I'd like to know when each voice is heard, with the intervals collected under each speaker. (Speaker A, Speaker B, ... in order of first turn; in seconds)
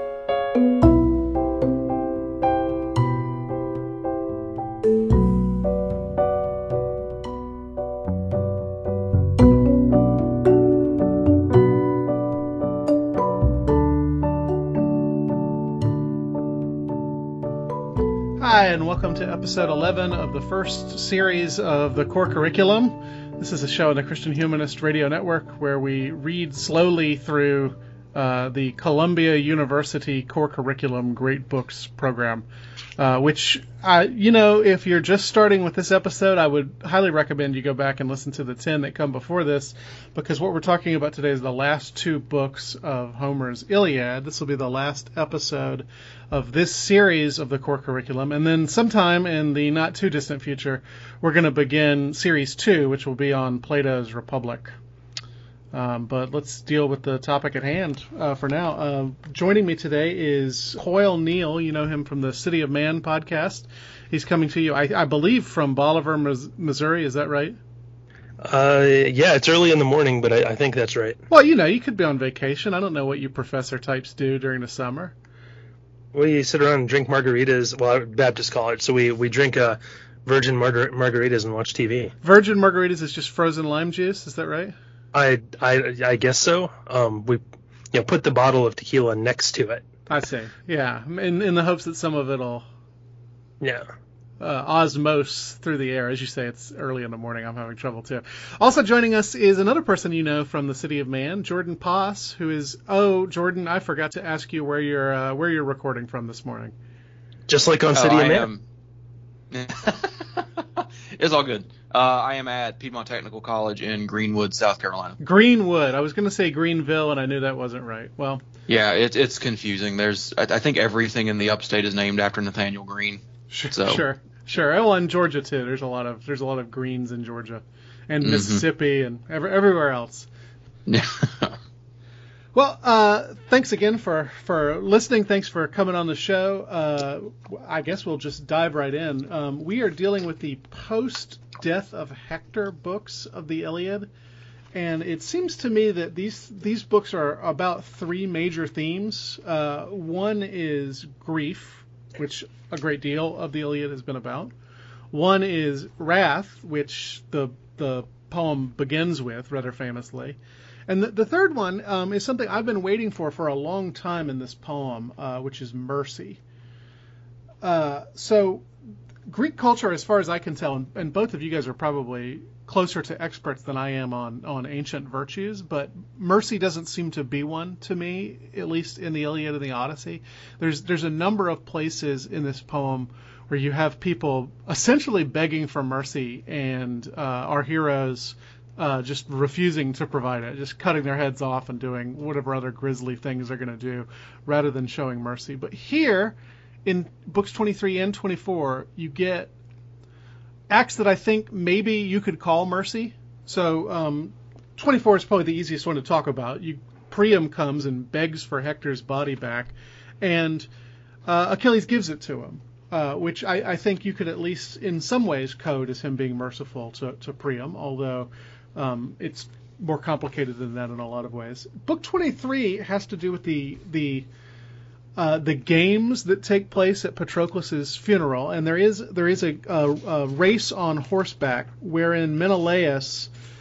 Speaker A: 18.4-32.5, 33.0-54.8, 55.7-67.6, 71.3-75.2, 82.2-84.8, 90.1-92.7, 94.4-106.7, 115.2-118.4, 123.5-130.3, 132.5-144.1, 144.7-154.5, 155.1-160.4, 160.9-166.4, 167.6-168.7, 169.3-199.5, 200.7-210.7, 211.3-224.3, 225.2-233.3
Speaker B: 68.4-71.2, 76.1-82.1, 85.1-87.4, 87.9-89.9, 93.6-93.9, 107.5-108.5
Speaker C: 107.9-108.6, 109.5-115.2, 118.7-124.0, 128.2-128.6, 130.9-131.6